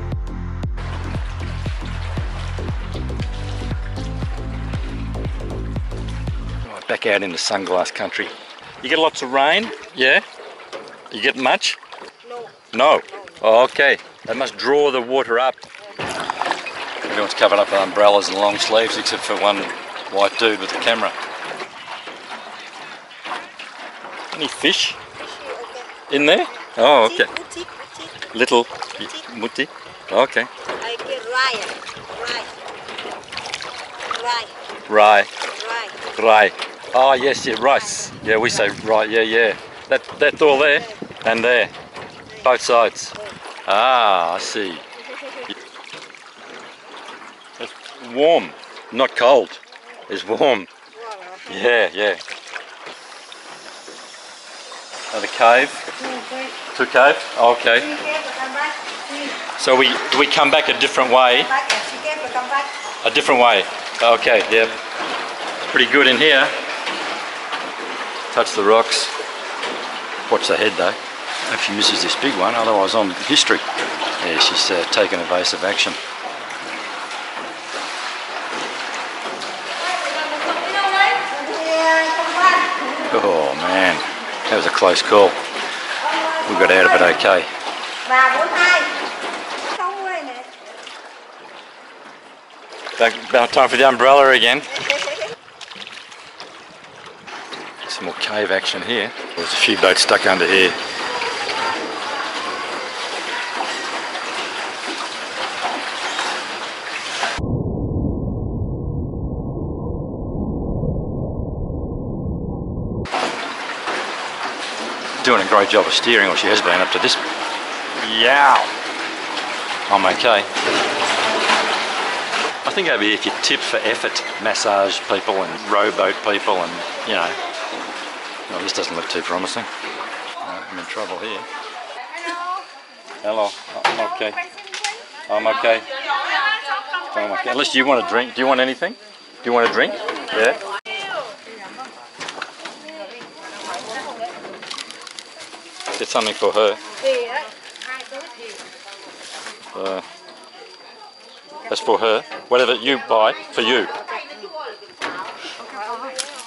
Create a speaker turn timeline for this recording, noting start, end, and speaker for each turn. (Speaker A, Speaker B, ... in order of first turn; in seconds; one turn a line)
Speaker A: 6.6-10.2
Speaker A: 11.1-11.8
Speaker B: 12.2-13.3
Speaker A: 12.7-15.6
Speaker A: 17.1-21.1
Speaker A: 24.3-25.0
Speaker B: 25.3-25.9
Speaker A: 26.1-27.3
Speaker B: 27.2-28.1
Speaker A: 28.3-30.5
Speaker B: 30.8-32.5
Speaker B: 34.1-34.5
Speaker A: 34.9-35.3
Speaker B: 35.6-36.0
Speaker A: 36.1-41.7
Speaker A: 42.4-43.1
Speaker A: 43.7-44.8
Speaker A: 47.6-50.7
Speaker B: 51.0-51.4
Speaker A: 51.5-52.2
Speaker A: 55.1-55.8
Speaker A: 56.7-58.0
Speaker B: 58.0-59.3
Speaker A: 59.5-61.5
Speaker B: 61.6-62.7
Speaker A: 63.0-64.8
Speaker A: 65.6-66.5
Speaker A: 68.3-69.1
Speaker A: 70.3-73.6
Speaker A: 74.2-76.0
Speaker B: 81.3-82.7
Speaker A: 83.1-85.3
Speaker A: 86.4-87.5
Speaker B: 88.1-88.9
Speaker B: 89.8-90.5
Speaker A: 93.0-94.7
Speaker A: 97.8-100.8
Speaker A: 115.2-117.2
Speaker A: 118.0-118.7
Speaker A: 119.9-120.5
Speaker A: 122.6-127.4
Speaker A: 128.5-129.7
Speaker A: 130.4-131.4
Speaker A: 133.2-134.4
Speaker A: 135.3-135.9
Speaker A: 137.1-140.6
Speaker A: 145.9-146.8
Speaker A: 149.7-150.0
Speaker A: 151.7-153.9
Speaker B: 155.7-156.1